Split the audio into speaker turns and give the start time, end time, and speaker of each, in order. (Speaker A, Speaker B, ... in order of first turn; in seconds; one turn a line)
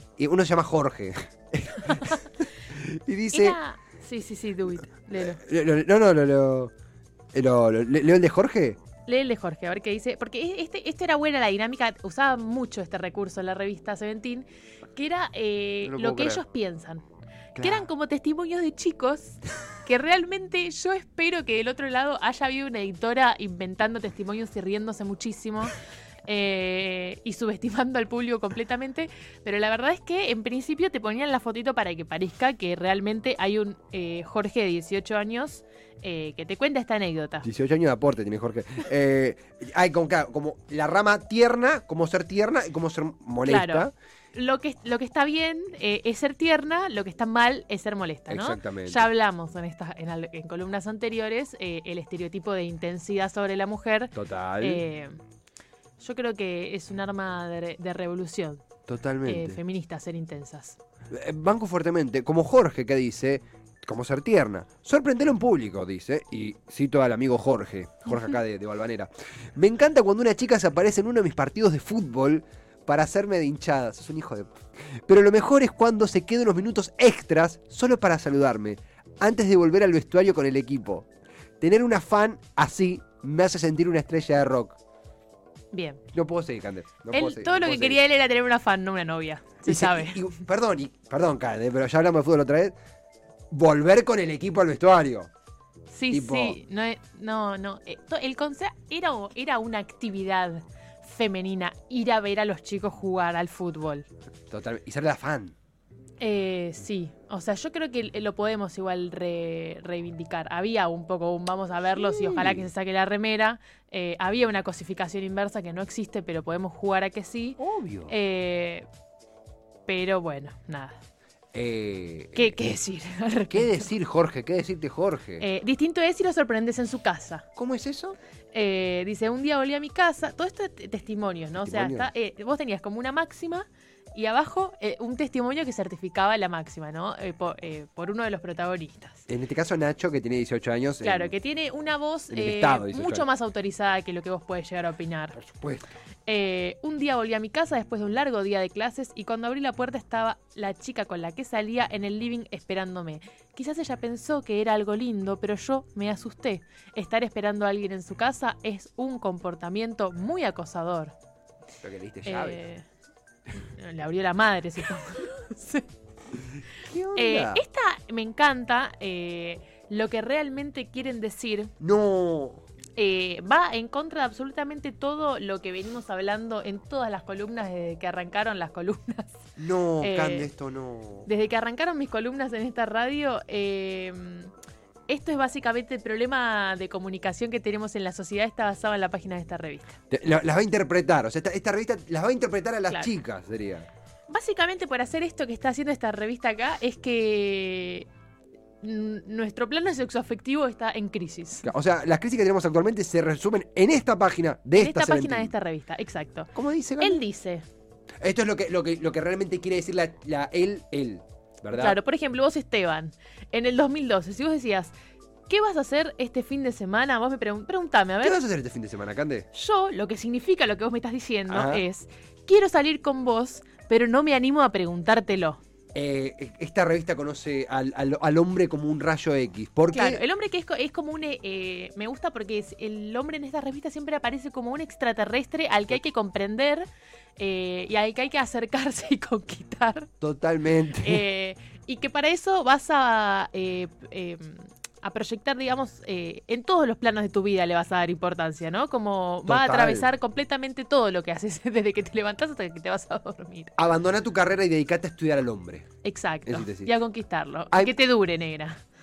Speaker A: 0.2-3.6
Speaker B: 3.3-5.4
Speaker A: 5.2-6.7
Speaker A: 7.3-8.8
Speaker B: 9.1-17.0
Speaker A: 15.8-16.4
Speaker A: 17.5-17.9
Speaker B: 17.6-37.5
Speaker A: 37.4-43.9
Speaker B: 43.4-55.2
Speaker A: 48.3-49.1
Speaker A: 54.1-54.8
Speaker B: 56.0-58.6
Speaker A: 58.9-59.6
Speaker B: 59.2-60.8
Speaker A: 61.1-81.1
Speaker A: 81.6-84.8
Speaker B: 85.7-86.0
Speaker A: 86.1-88.0
Speaker B: 87.1-90.2
Speaker A: 89.7-92.7
Speaker A: 93.5-95.3
Speaker B: 95.9-104.1
Speaker A: 96.1-96.6
Speaker A: 104.5-105.5
Speaker B: 106.2-118.8
Speaker A: 111.9-112.7
Speaker A: 117.6-118.1
Speaker B: 119.9-121.0
Speaker A: 121.5-122.5
Speaker B: 122.3-123.9
Speaker A: 123.5-125.4
Speaker B: 125.4-127.5
Speaker A: 127.5-128.2
Speaker B: 128.5-139.2
Speaker A: 131.6-132.1
Speaker A: 139.3-141.3
Speaker B: 141.0-145.4
Speaker A: 142.3-143.2
Speaker A: 145.3-145.9
Speaker B: 146.3-161.1
Speaker A: 161.8-162.6
Speaker B: 162.2-162.8
Speaker B: 163.5-165.9
Speaker A: 166.3-167.6
Speaker B: 167.2-171.7
Speaker A: 171.8-172.6
Speaker B: 173.0-179.5
Speaker A: 179.6-181.3
Speaker B: 180.0-180.5
Speaker B: 181.3-184.5
Speaker B: 185.1-190.0
Speaker A: 190.1-193.9
Speaker B: 194.3-198.1
Speaker B: 198.8-201.7
Speaker A: 201.6-205.5
Speaker B: 204.8-207.6
Speaker A: 206.5-207.2
Speaker A: 208.2-212.0
Speaker B: 211.7-214.9
Speaker B: 215.5-218.4
Speaker A: 218.2-219.4
Speaker B: 219.5-225.6
Speaker A: 221.5-221.8
Speaker A: 225.9-230.2
Speaker B: 229.9-236.8
Speaker B: 237.4-240.1
Speaker A: 240.2-241.2
Speaker B: 241.0-253.8
Speaker A: 249.4-250.1
Speaker A: 253.8-255.9
Speaker B: 256.0-258.8
Speaker A: 256.4-256.9